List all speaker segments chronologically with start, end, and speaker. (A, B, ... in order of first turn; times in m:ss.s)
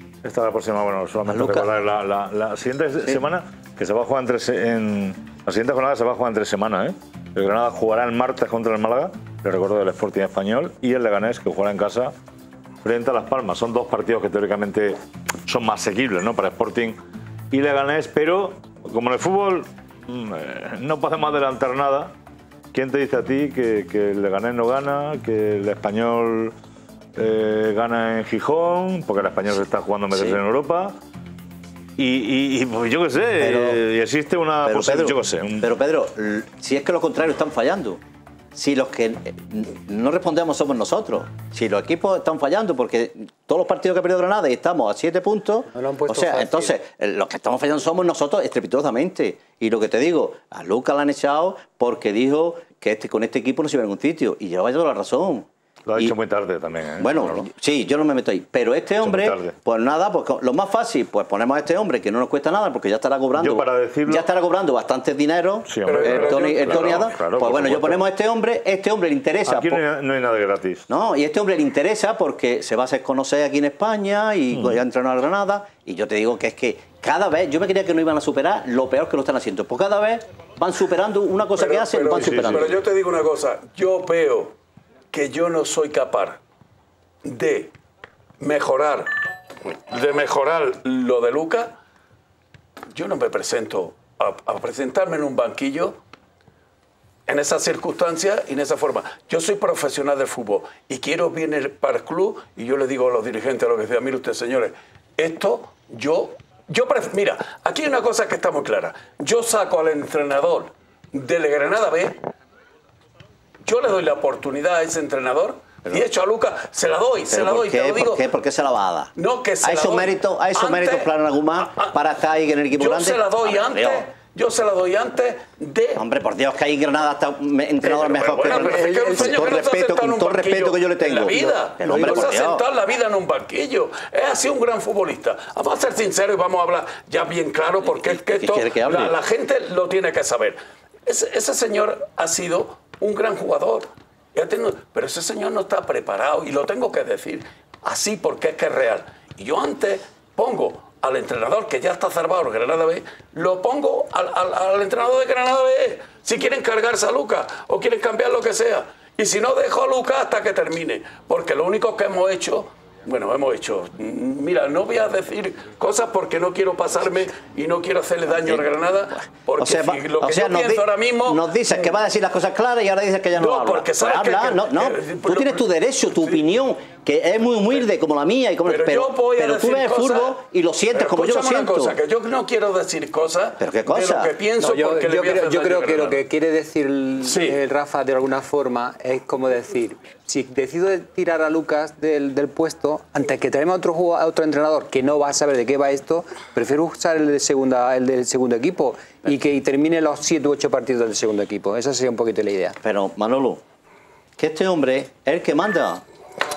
0:00.2-0:12.1 A
0:01.3-0:01.7 B
0:12.8-0:17.0 A
0:17.5-0:22.1 A
0:22.7-0:26.6 A
0:27.2-0:31.0 A
0:30.1-0:30.4 B
0:32.0-0:35.7 A
0:33.4-0:33.8 B
0:34.6-0:38.0 B
0:38.5-0:56.1 B
0:45.7-0:46.8 C
0:55.9-0:57.5 A
0:57.0-1:09.8 B
0:59.0-0:59.6 A
1:03.3-1:04.3 A
1:05.7-1:08.0 A
1:05.8-1:07.1 D
1:09.5-1:10.9 A
1:10.9-1:22.7 B
1:14.5-1:14.8 A
1:21.5-1:24.6 D
1:22.1-1:22.8 A
1:25.1-1:26.4 D
1:27.2-1:27.7 D
1:28.4-1:29.1 D
1:29.8-1:31.8 D
1:32.9-1:36.0 D
1:37.3-1:52.2 D
1:53.6-1:58.3 D
1:57.3-1:59.1 B
1:59.2-2:02.0 D
1:59.6-2:04.1 B
2:02.7-2:06.0 D
2:06.0-2:12.6 B
2:07.8-2:52.0 D
2:08.4-2:09.6 C
2:11.9-2:12.4 C
2:18.0-2:19.2 B
2:48.3-2:48.6 B
2:49.6-3:02.0 B
2:53.4-2:56.4 D
2:58.6-3:00.4 D
3:00.9-3:06.2 D
3:03.6-3:04.3 B
3:04.6-3:22.8 C
3:07.2-3:07.6 D
3:22.8-3:23.6 B
3:24.4-3:26.0 B